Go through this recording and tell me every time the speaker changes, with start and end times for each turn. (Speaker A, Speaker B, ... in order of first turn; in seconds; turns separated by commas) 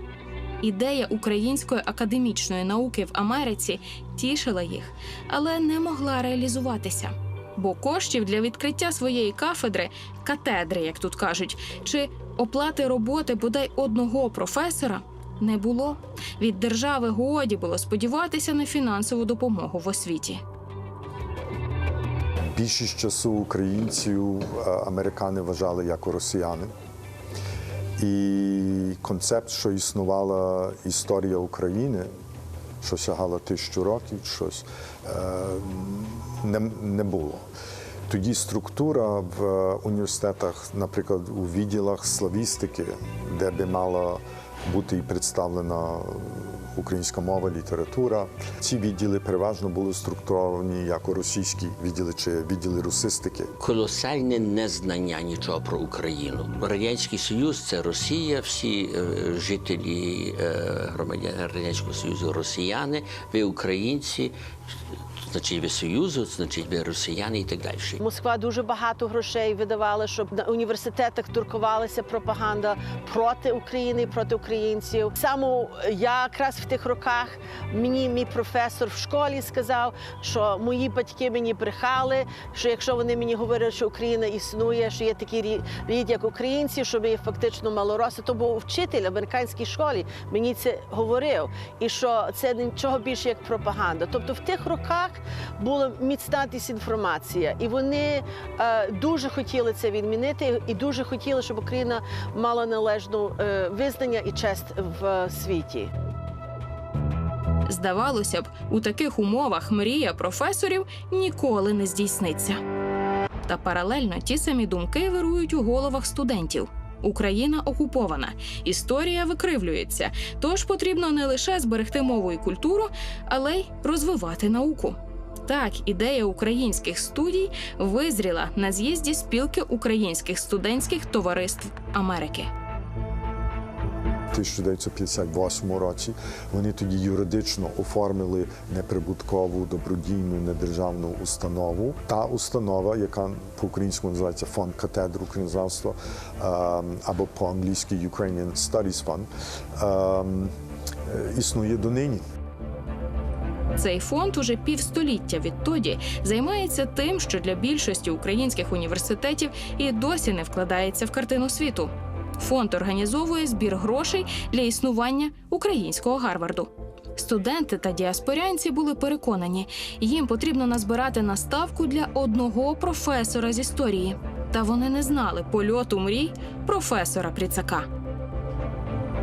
Speaker A: 0.6-20.4, Speaker B: 22.5-26.7, Speaker B: 28.0-32.1, Speaker B: 32.8-37.5, Speaker B: 38.1-53.5, Speaker C: 53.6-64.4, Speaker C: 65.2-68.0, Speaker D: 68.0-105.9, Speaker A: 107.7-112.6, Speaker A: 113.5-132.5, Speaker B: 134.3-150.5, Speaker B: 151.1-152.2, Speaker A: 153.8-177.9